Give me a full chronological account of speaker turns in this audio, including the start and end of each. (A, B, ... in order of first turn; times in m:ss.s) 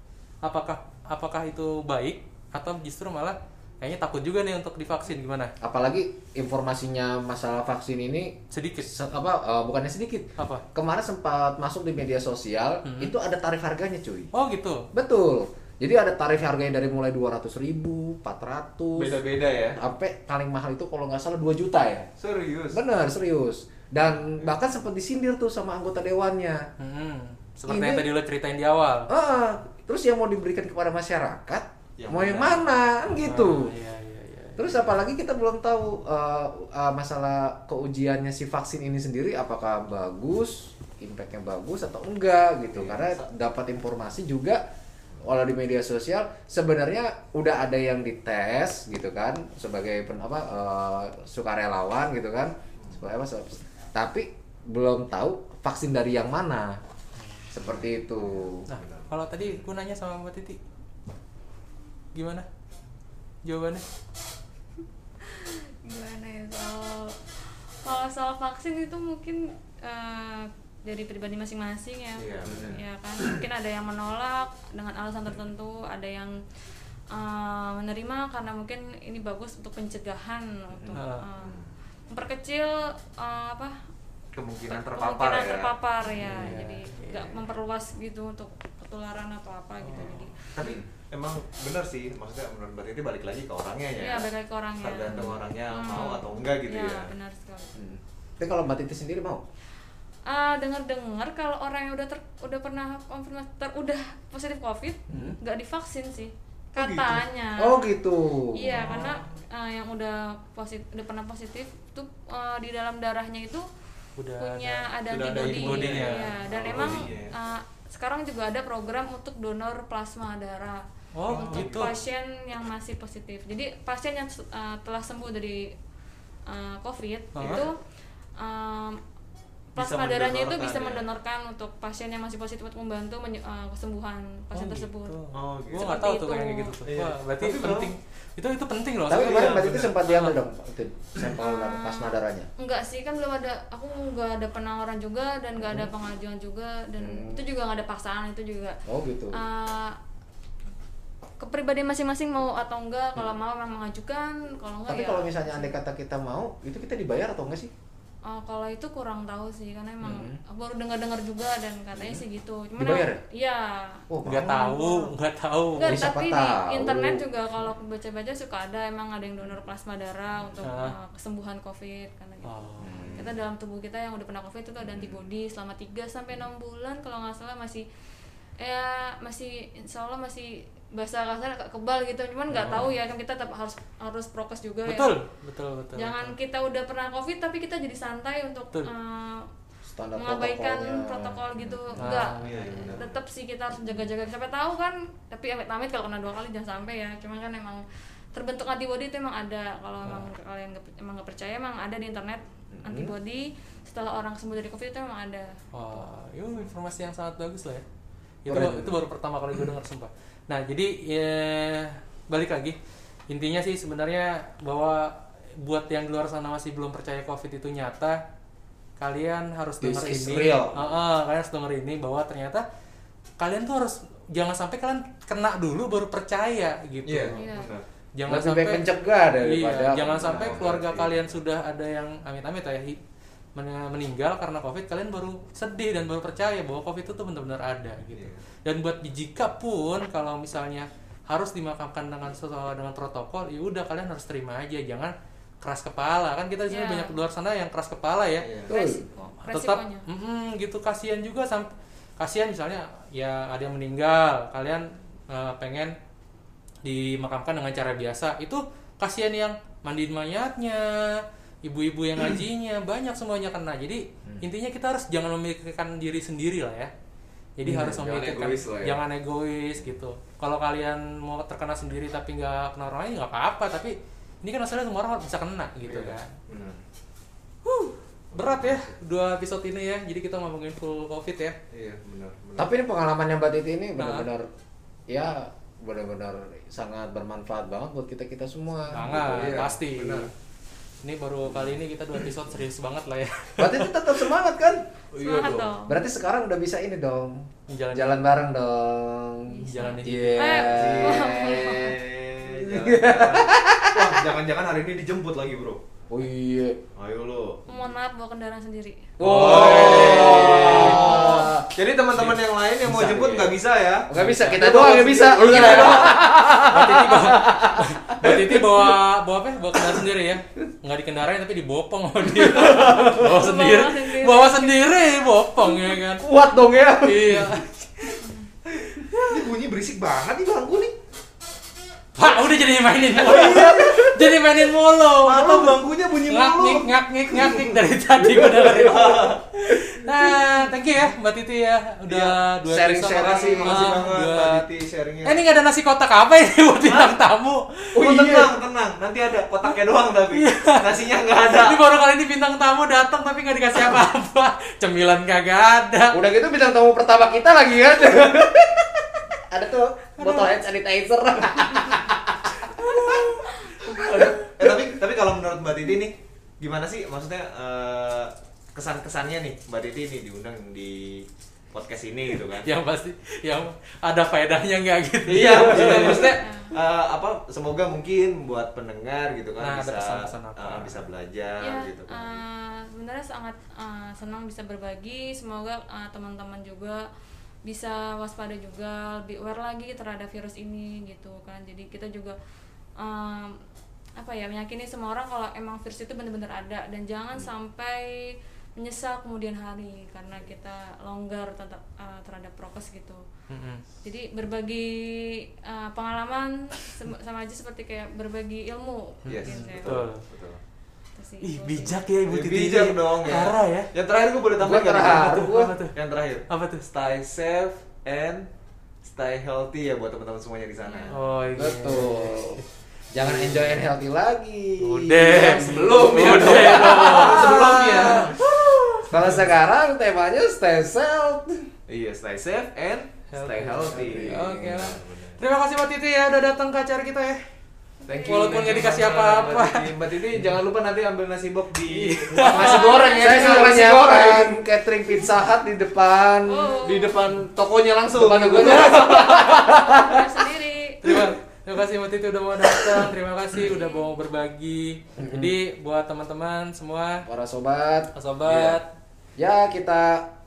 0:00.4-0:05.5 A
0:05.6-0:14.3 B
0:08.5-0:08.9 A
0:10.4-0:10.6 A
0:12.8-0:13.1 A
0:14.3-0:14.8 A
0:14.9-0:19.2 B
0:19.0-0:19.8 C
0:19.7-0:22.1 B
0:22.2-0:22.8 C
0:22.7-0:26.6 B
0:26.8-0:29.1 A
0:27.7-0:28.1 B
0:29.1-0:33.7 B
0:32.0-0:32.7 C
0:33.1-0:34.8 A
0:34.6-0:44.6 B
0:42.7-0:43.2 C
0:45.2-0:56.8 B
0:57.2-0:57.6 A
0:57.5-0:58.6 B
0:58.7-1:00.6 A
0:58.8-0:59.6 C
1:02.1-1:02.4 A
1:03.4-1:03.8 A
1:05.2-1:16.4 D
1:12.2-1:13.4 C
1:12.4-1:12.8 B
1:17.1-1:21.6 D
1:20.9-1:21.2 A
1:21.4-1:21.7 C
1:22.1-1:23.8 D
1:24.3-1:25.7 C
1:24.8-1:30.7 D
1:26.2-1:26.7 B
1:26.2-1:27.4 A
1:29.8-1:30.3 A
1:30.6-1:34.3 C
1:34.0-1:37.8 D
1:34.8-1:37.1 C
1:35.1-1:35.4 B
1:37.8-1:39.4 B
1:40.3-1:47.9 D
1:45.1-1:45.4 B
1:46.8-1:47.2 C
1:47.6-1:49.0 B
1:48.5-1:53.7 D
1:48.7-1:49.2 A
1:54.2-1:56.3 A
1:54.4-2:05.7 D
1:55.1-1:57.4 C
2:01.2-2:01.9 A
2:01.3-2:02.0 C
2:06.5-2:07.8 D
2:07.3-2:07.6 A
2:07.4-2:07.6 C
2:08.4-2:09.0 D
2:09.7-2:15.2 D
2:09.8-2:11.0 C
2:14.5-2:20.4 A
2:15.3-2:15.9 C
2:15.7-2:16.8 D
2:16.9-2:17.9 C
2:19.1-2:22.5 B
2:19.1-2:19.9 C
2:21.4-2:28.8 D
2:25.6-2:25.9 B
2:27.0-2:27.4 B
2:28.9-2:29.4 B
2:29.3-2:30.0 D
2:31.4-2:35.7 D
2:34.9-2:37.7 B
2:38.3-2:45.1 D
2:40.0-2:40.4 B
2:41.9-2:42.2 B
2:42.8-2:43.2 B
2:44.1-2:44.7 B
2:44.2-2:46.0 A
2:45.8-2:52.5 D
2:45.8-2:47.2 B
2:50.6-2:50.9 A
2:52.4-2:53.0 A
2:52.8-2:53.3 B
2:53.1-2:57.8 D
2:58.6-3:05.1 D
3:02.5-3:02.9 A
3:04.9-3:06.3 A
3:06.0-3:09.5 D
3:09.8-3:12.0 B
3:10.2-3:17.8 D
3:12.0-3:13.0 A
3:12.4-3:13.2 C
3:18.3-3:25.5 D
3:22.7-3:23.1 B
3:25.7-3:27.8 A
3:28.4-3:32.8 A
3:28.5-3:29.0 B
3:33.3-3:38.2 A
3:39.0-3:42.6 A
3:39.8-3:40.8 B
3:43.4-3:47.3 A
3:47.0-3:47.8 C
3:47.3-3:47.7 D
3:48.2-3:48.8 A
3:48.3-3:51.1 B
3:49.4-3:53.0 A
3:53.6-4:08.5 A
3:58.1-3:58.4 C
4:06.7-4:07.2 D
4:08.4-4:08.7 C
4:08.7-4:09.0 B
4:08.7-4:10.1 D
4:09.5-4:15.9 A
4:16.8-4:26.9 A
4:27.6-4:36.3 A
4:27.6-4:28.0 B
4:27.8-4:29.0 C
4:35.8-4:36.8 C
4:37.6-4:41.6 A
4:38.3-4:38.9 C
4:41.7-4:42.7 C
4:42.6-4:44.5 B
4:44.0-4:44.2 A
4:45.1-4:49.6 B
4:48.9-4:50.3 A
4:49.0-4:50.3 C
4:51.0-4:54.0 A
4:53.6-4:54.8 B
4:55.1-4:55.7 C
4:55.2-4:55.9 D
4:55.8-5:01.6 B
4:57.7-4:58.2 A
4:59.5-5:02.0 D
4:59.7-5:00.6 A
5:00.7-5:05.8 C
5:02.6-5:04.2 B
5:06.1-5:06.8 B
5:07.0-5:07.6 C
5:07.7-5:09.1 D
5:09.2-5:11.7 B
5:09.2-5:11.2 A
5:09.2-5:16.2 C
5:11.1-5:11.5 D
5:12.1-5:12.4 A
5:12.8-5:13.6 B
5:14.1-5:18.9 B
5:14.1-5:26.2 A
5:22.3-5:23.2 B
5:22.7-5:25.0 D
5:26.2-5:27.5 B
5:27.0-5:28.2 A
5:29.0-5:29.3 B
5:29.2-5:30.9 C
5:32.2-5:44.6 A
5:33.2-5:34.2 C
5:33.3-5:34.2 B
5:35.2-5:37.8 C
5:38.4-5:39.4 C
5:38.6-5:40.5 B
5:42.1-5:42.4 C
5:42.6-5:44.1 B
5:43.1-5:45.4 C
5:45.2-5:47.9 A
5:46.8-5:47.1 C
5:47.9-5:48.5 B
5:48.0-5:51.8 C
5:50.3-5:56.2 A
5:56.1-6:03.3 B
6:00.2-6:00.6 A
6:03.0-6:03.3 A
6:03.9-6:04.7 B
6:03.9-6:12.7 C
6:04.0-6:04.3 A
6:12.6-6:16.4 A
6:15.3-6:22.4 C
6:16.2-6:16.7 D
6:19.6-6:21.0 A
6:21.6-6:27.0 D
6:27.6-6:32.4 D
6:33.0-6:33.6 D
6:34.2-6:43.2 D
6:43.5-6:43.8 A
6:44.0-6:50.0 D
6:49.2-6:50.2 A
6:49.3-6:50.6 C
6:51.2-6:52.1 D
6:51.4-6:53.9 A
6:52.2-6:58.5 C
6:54.6-6:55.8 B
6:55.1-6:55.9 A
6:56.5-6:56.9 A
6:59.0-7:01.2 C
7:00.8-7:01.2 D
7:01.1-7:02.6 A
7:01.6-7:08.4 B
7:03.2-7:03.8 A
7:04.8-7:09.4 A
7:05.5-7:08.7 C
7:09.1-7:11.7 B
7:11.9-7:15.4 C
7:13.3-7:17.4 A
7:13.8-7:14.7 B
7:18.0-7:18.8 D
7:18.1-7:24.6 C
7:18.2-7:19.9 A
7:21.9-7:23.4 A
7:22.4-7:30.3 B
7:22.6-7:23.6 D
7:26.5-7:27.2 D
7:26.8-7:29.5 C
7:29.1-7:31.0 D
7:31.0-7:37.2 A
7:33.6-7:34.1 D
7:35.2-7:35.5 B
7:37.2-7:38.8 B
7:38.1-7:38.9 A
7:39.4-7:40.3 B